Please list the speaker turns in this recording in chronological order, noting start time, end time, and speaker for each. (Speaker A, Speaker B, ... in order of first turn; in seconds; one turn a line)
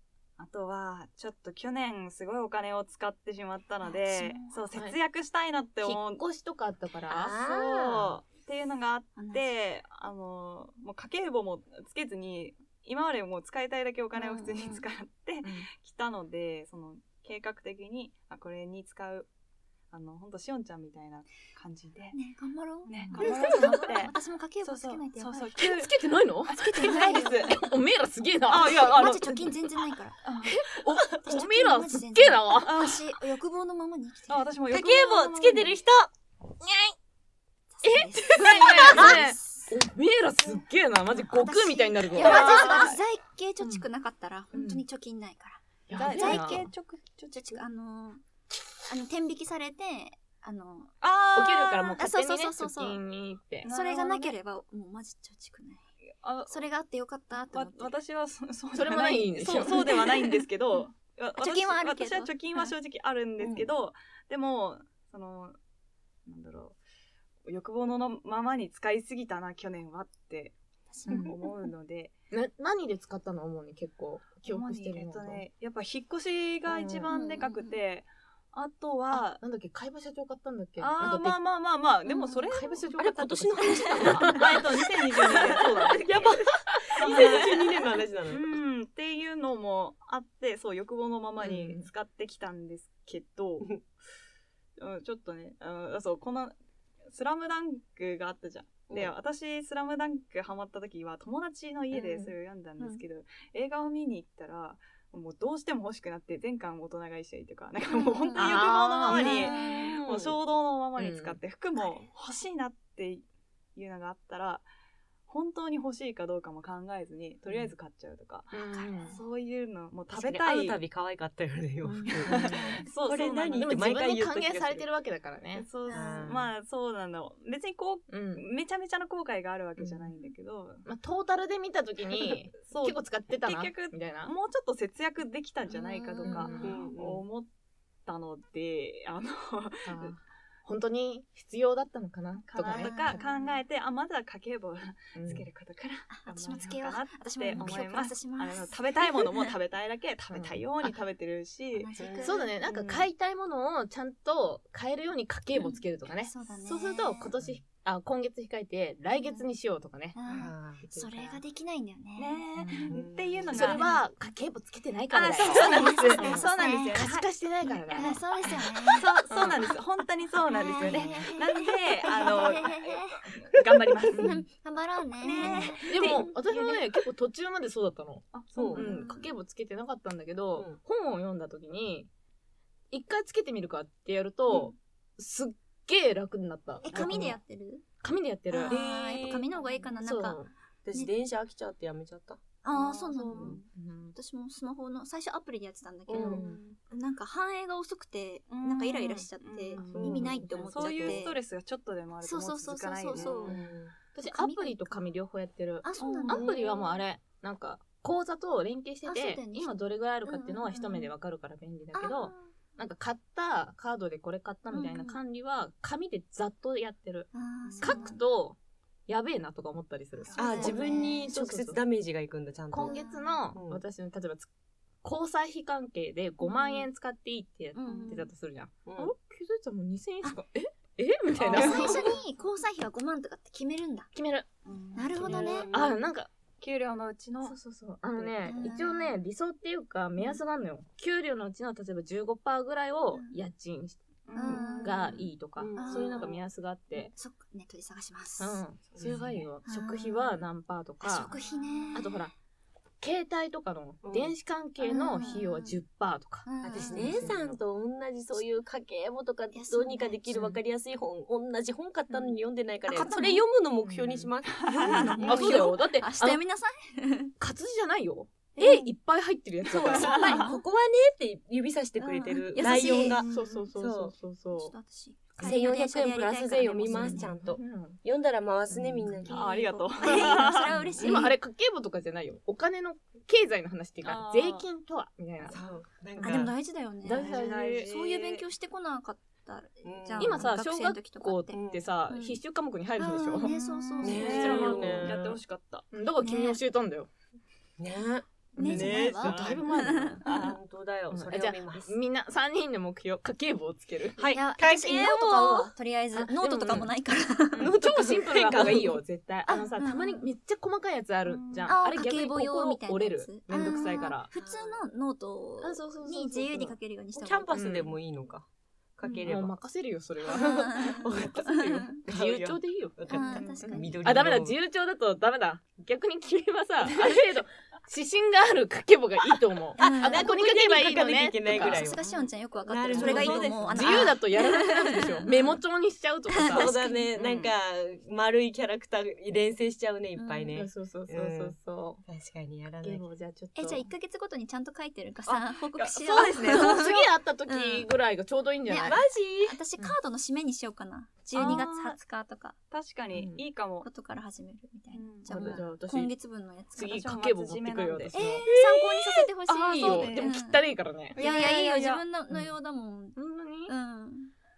Speaker A: 0.4-6.2
Speaker B: 3.8-4.7
Speaker C: 5.8-7.4
Speaker D: 7.1-8.2
Speaker A: 7.3-19.3
Speaker B: 9.2-9.5
Speaker B: 14.1-14.8
Speaker C: 15.4-15.7
Speaker A: 19.9-22.1
Speaker B: 22.1-25.6
Speaker A: 22.9-25.9
Speaker C: 22.9-24.0
Speaker C: 25.6-29.0
Speaker A: 26.5-27.7
Speaker B: 26.5-27.6
Speaker A: 28.5-29.6
Speaker B: 28.6-30.2
Speaker A: 30.2-30.6
Speaker C: 30.4-32.7
Speaker B: 31.2-34.5
Speaker A: 32.6-33.2
Speaker A: 34.3-35.8
Speaker D: 34.7-36.1
Speaker C: 36.6-37.0
Speaker B: 37.7-39.7
Speaker C: 37.8-42.9
Speaker A: 38.4-39.0
Speaker B: 41.3-46.7
Speaker A: 42.1-43.0
Speaker C: 44.5-44.8
Speaker C: 45.9-46.7
Speaker A: 45.9-47.6
Speaker B: 47.3-48.2
Speaker B: 48.9-50.9
Speaker A: 51.0-52.0
Speaker C: 51.3-53.7
Speaker B: 52.0-53.0
Speaker A: 53.6-54.3
Speaker B: 53.6-55.9
Speaker A: 56.2-56.6
Speaker B: 56.5-57.9
Speaker A: 57.5-65.5
Speaker C: 58.7-60.0
Speaker B: 59.6-60.8
Speaker B: 61.4-62.7
Speaker A: 66.2-66.8
Speaker A: 67.5-70.5
Speaker B: 70.9-71.7
Speaker C: 71.1-71.3
Speaker A: 71.1-72.1
Speaker C: 72.3-75.4
Speaker A: 74.4-79.4
Speaker C: 76.7-77.1
Speaker B: 77.1-77.8
Speaker C: 79.1-81.4
Speaker A: 80.8-83.1
Speaker B: 82.0-82.5
Speaker C: 82.5-84.7
Speaker D: 83.0-88.6
Speaker B: 83.7-84.1
Speaker A: 84.3-86.3
Speaker C: 85.2-86.0
Speaker C: 86.7-87.5
Speaker A: 87.0-93.8
Speaker C: 91.4-91.9
Speaker A: 94.8-96.5
Speaker A: 97.1-114.7
Speaker C: 101.9-102.3
Speaker B: 107.9-108.5
Speaker C: 108.3-110.4
Speaker B: 109.1-109.9
Speaker C: 111.0-111.4
Speaker B: 111.8-112.0
Speaker A: 115.3-120.8
Speaker C: 118.5-119.2
Speaker B: 118.7-119.2
Speaker D: 120.1-124.9
Speaker C: 122.0-122.6
Speaker A: 122.2-123.9
Speaker B: 122.5-122.8
Speaker C: 123.6-125.7
Speaker A: 125.5-130.8
Speaker B: 125.8-126.3
Speaker D: 125.9-126.5
Speaker C: 128.1-128.4
Speaker C: 129.8-130.1
Speaker C: 130.8-134.3
Speaker A: 132.1-137.5
Speaker B: 135.7-136.7
Speaker C: 136.2-136.8
Speaker D: 136.6-137.2
Speaker A: 138.1-140.1
Speaker C: 139.8-143.2
Speaker A: 142.4-153.1
Speaker B: 142.7-143.6
Speaker C: 145.1-145.4
Speaker B: 146.1-149.5
Speaker C: 150.3-150.6
Speaker B: 151.8-152.5
Speaker D: 152.0-152.3
Speaker C: 152.2-160.2
Speaker B: 155.6-157.3
Speaker B: 159.2-159.4
Speaker B: 160.1-162.4
Speaker D: 160.3-160.8
Speaker C: 160.8-161.4
Speaker A: 162.2-163.8
Speaker C: 162.6-162.9
Speaker D: 162.9-163.8
Speaker C: 163.5-168.7
Speaker B: 163.5-164.0
Speaker A: 165.1-167.3
Speaker B: 165.4-167.0
Speaker B: 167.9-169.1
Speaker A: 167.9-168.2
Speaker A: 168.9-174.4
Speaker C: 169.3-169.7
Speaker B: 170.5-173.2
Speaker C: 174.1-174.4
Speaker B: 174.2-176.3
Speaker A: 175.2-176.8
Speaker C: 175.4-182.1
Speaker D: 175.4-175.7
Speaker A: 178.3-179.0
Speaker D: 178.5-178.9
Speaker B: 178.8-179.3
Speaker C: 182.9-187.4
Speaker B: 186.8-187.8
Speaker D: 186.9-187.4
Speaker C: 188.0-188.8
Speaker B: 188.5-190.4
Speaker A: 188.7-189.9
Speaker C: 190.0-190.5
Speaker D: 190.8-192.4
Speaker B: 192.6-193.6
Speaker A: 192.7-193.7
Speaker C: 193.4-194.1
Speaker B: 194.1-201.4
Speaker D: 196.1-196.4
Speaker C: 196.1-196.6
Speaker A: 196.1-196.7
Speaker A: 198.5-203.6
Speaker C: 199.8-201.2
Speaker D: 199.9-200.5
Speaker B: 202.2-203.6
Speaker D: 203.1-203.9
Speaker B: 204.1-205.0
Speaker C: 204.1-218.6
Speaker B: 205.8-207.0
Speaker A: 206.0-206.5
Speaker D: 206.3-206.6
Speaker B: 209.1-211.1
Speaker B: 211.9-212.5
Speaker B: 214.7-215.2
Speaker B: 217.3-218.2
Speaker A: 217.8-218.2
Speaker C: 219.1-221.8
Speaker A: 220.2-220.9
Speaker B: 220.3-221.3
Speaker D: 220.3-223.0
Speaker C: 222.7-224.5
Speaker B: 222.8-223.5
Speaker D: 223.5-223.8
Speaker C: 225.0-232.2
Speaker B: 226.4-226.8
Speaker B: 227.8-228.3
Speaker D: 228.8-229.1
Speaker A: 231.4-232.2
Speaker D: 231.5-232.0
Speaker B: 231.5-234.1
Speaker C: 234.1-234.5
Speaker B: 234.7-235.7
Speaker D: 235.2-235.9
Speaker C: 235.2-236.3
Speaker A: 235.2-235.9
Speaker A: 236.6-237.6
Speaker C: 237.4-247.1
Speaker A: 238.1-238.8
Speaker B: 238.4-239.2
Speaker A: 244.3-246.4
Speaker B: 244.3-246.3
Speaker D: 245.6-246.0
Speaker B: 246.9-248.6
Speaker C: 248.4-251.3
Speaker D: 248.9-249.3
Speaker B: 249.6-250.4
Speaker B: 251.0-252.2
Speaker C: 251.9-252.3
Speaker C: 253.0-257.6
Speaker D: 254.0-254.3
Speaker B: 254.8-255.8
Speaker B: 256.4-257.3
Speaker D: 256.6-265.7
Speaker B: 259.5-260.2
Speaker C: 260.3-260.6
Speaker B: 262.9-263.4
Speaker C: 263.8-264.3
Speaker A: 264.6-265.5
Speaker B: 264.7-267.3
Speaker C: 264.9-266.4
Speaker C: 267.4-270.4
Speaker B: 268.6-268.9
Speaker B: 269.7-270.6
Speaker D: 269.7-274.1
Speaker A: 269.9-270.5
Speaker B: 272.0-273.2
Speaker C: 272.8-274.7
Speaker A: 272.9-273.7
Speaker B: 274.5-277.3
Speaker D: 275.4-279.4
Speaker C: 276.8-278.0
Speaker C: 278.7-279.2
Speaker B: 279.2-281.3
Speaker A: 279.3-280.8
Speaker D: 280.3-281.3
Speaker C: 281.0-285.6
Speaker A: 284.0-284.6
Speaker D: 285.4-286.5
Speaker C: 286.2-286.5
Speaker B: 286.2-291.6
Speaker C: 287.0-287.9
Speaker A: 287.1-288.4
Speaker D: 289.8-290.5
Speaker C: 290.2-295.2
Speaker D: 291.5-291.9
Speaker B: 292.1-292.4
Speaker B: 293.0-294.7
Speaker A: 293.5-295.9
Speaker D: 294.0-295.4
Speaker C: 295.9-297.1
Speaker B: 296.2-296.6
Speaker D: 297.8-299.7
Speaker B: 298.6-300.2
Speaker A: 298.6-299.7
Speaker C: 298.6-300.2
Speaker D: 300.2-301.9
Speaker A: 300.2-300.6
Speaker C: 301.1-304.2
Speaker A: 304.2-305.0
Speaker B: 304.3-307.7
Speaker D: 304.6-305.7
Speaker C: 306.1-306.9
Speaker C: 307.5-314.3
Speaker D: 307.6-309.0
Speaker B: 309.5-310.3
Speaker A: 311.2-311.8
Speaker B: 311.7-317.5
Speaker D: 313.5-313.8
Speaker D: 314.3-314.8
Speaker C: 315.6-316.7
Speaker D: 317.1-319.6
Speaker C: 317.5-317.9
Speaker C: 319.2-331.8
Speaker D: 320.2-324.6
Speaker B: 320.3-322.0
Speaker B: 323.1-324.0
Speaker B: 329.8-330.3
Speaker D: 329.8-332.0
Speaker B: 331.5-335.6
Speaker A: 332.0-332.3
Speaker D: 332.6-334.1
Speaker A: 332.9-334.0
Speaker C: 332.9-336.7
Speaker B: 336.3-337.0
Speaker D: 336.4-343.0
Speaker A: 337.2-337.4
Speaker B: 340.1-340.6
Speaker C: 340.5-342.0
Speaker C: 342.8-343.9
Speaker B: 343.5-347.9
Speaker A: 345.2-346.9
Speaker C: 346.1-349.0
Speaker B: 348.7-352.6
Speaker D: 348.8-349.6
Speaker A: 351.3-352.0
Speaker A: 352.7-353.9
Speaker C: 353.1-353.4
Speaker B: 353.8-357.1
Speaker A: 354.9-355.6
Speaker C: 355.3-356.1
Speaker C: 356.8-358.4
Speaker A: 356.8-358.5
Speaker B: 358.1-360.6
Speaker A: 359.5-360.3
Speaker C: 359.6-361.2
Speaker A: 361.1-362.0
Speaker B: 361.1-364.3
Speaker C: 363.1-363.7